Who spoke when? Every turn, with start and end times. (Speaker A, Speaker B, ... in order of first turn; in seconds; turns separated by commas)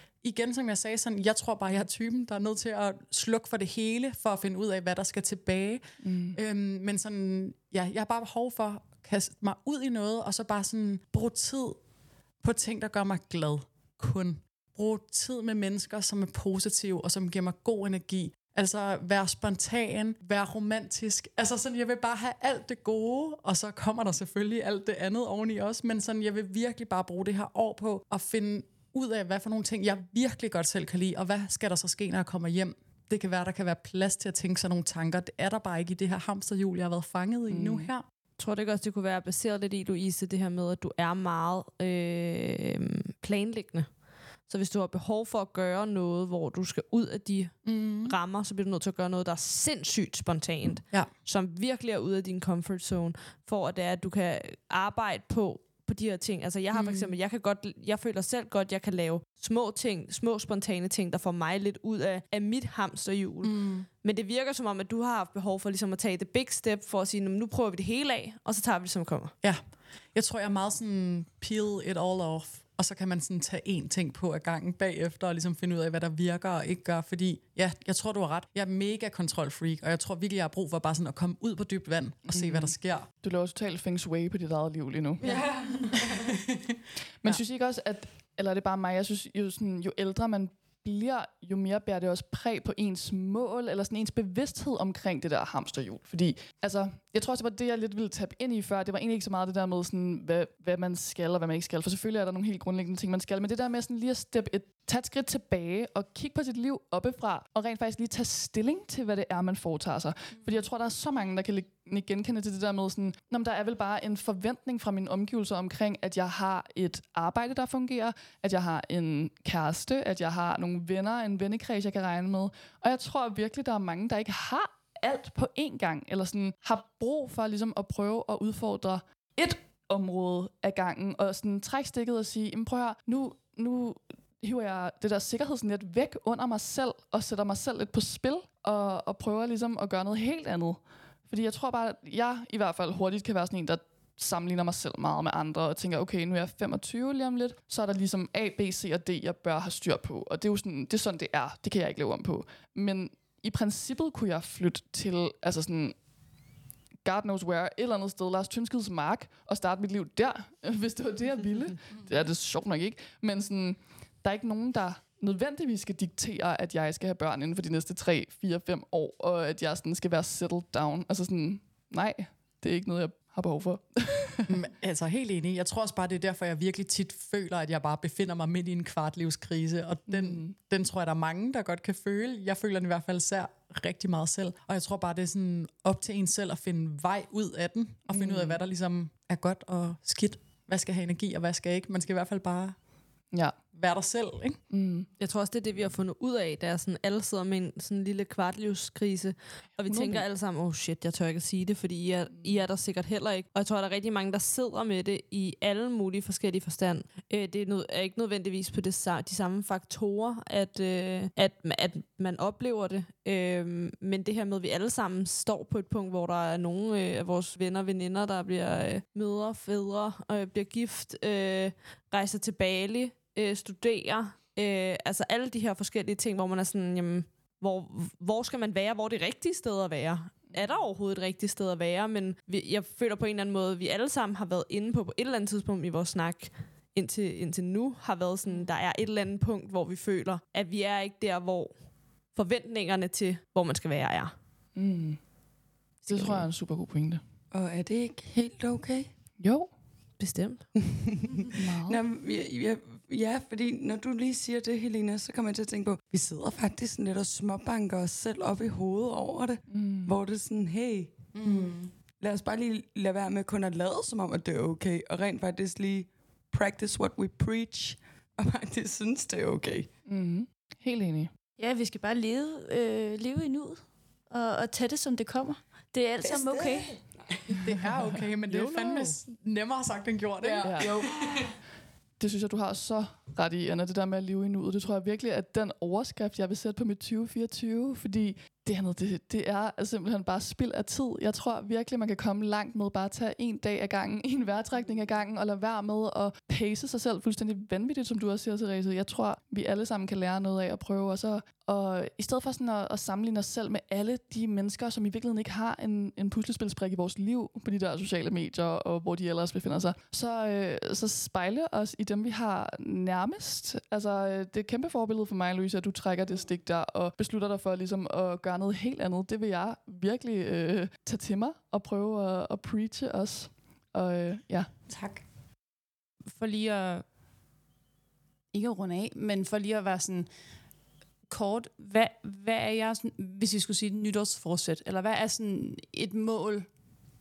Speaker A: 0.2-11.8, Speaker B: 6.0-6.4, Speaker A: 12.4-38.0, Speaker B: 37.5-37.9, Speaker C: 38.4-43.9, Speaker C: 44.5-69.3, Speaker A: 47.6-48.1, Speaker A: 56.7-57.1, Speaker A: 63.4-63.9, Speaker A: 70.1-83.1, Speaker B: 82.3-85.4, Speaker D: 85.2-86.0, Speaker B: 87.2-155.9, Speaker B: 157.0-174.5, Speaker A: 174.5-192.8, Speaker B: 180.1-180.5, Speaker B: 188.1-188.6, Speaker A: 193.7-194.6, Speaker B: 194.7-195.1, Speaker C: 195.2-241.8, Speaker B: 199.8-200.2, Speaker C: 242.3-244.3, Speaker B: 244.8-245.2, Speaker B: 246.0-247.2, Speaker D: 247.5-249.1, Speaker B: 249.4-249.7, Speaker C: 250.2-250.7, Speaker D: 250.8-261.2, Speaker B: 251.5-252.0, Speaker B: 259.7-260.1, Speaker A: 261.3-261.9, Speaker D: 262.2-269.9, Speaker B: 270.1-271.3, Speaker E: 271.6-277.0, Speaker D: 276.2-277.6, Speaker A: 277.6-281.1, Speaker D: 280.4-281.3, Speaker B: 280.6-280.9, Speaker B: 282.2-324.7, Speaker A: 324.9-325.2, Speaker F: 326.3-327.1, Speaker F: 328.5-330.3, Speaker F: 331.3-336.7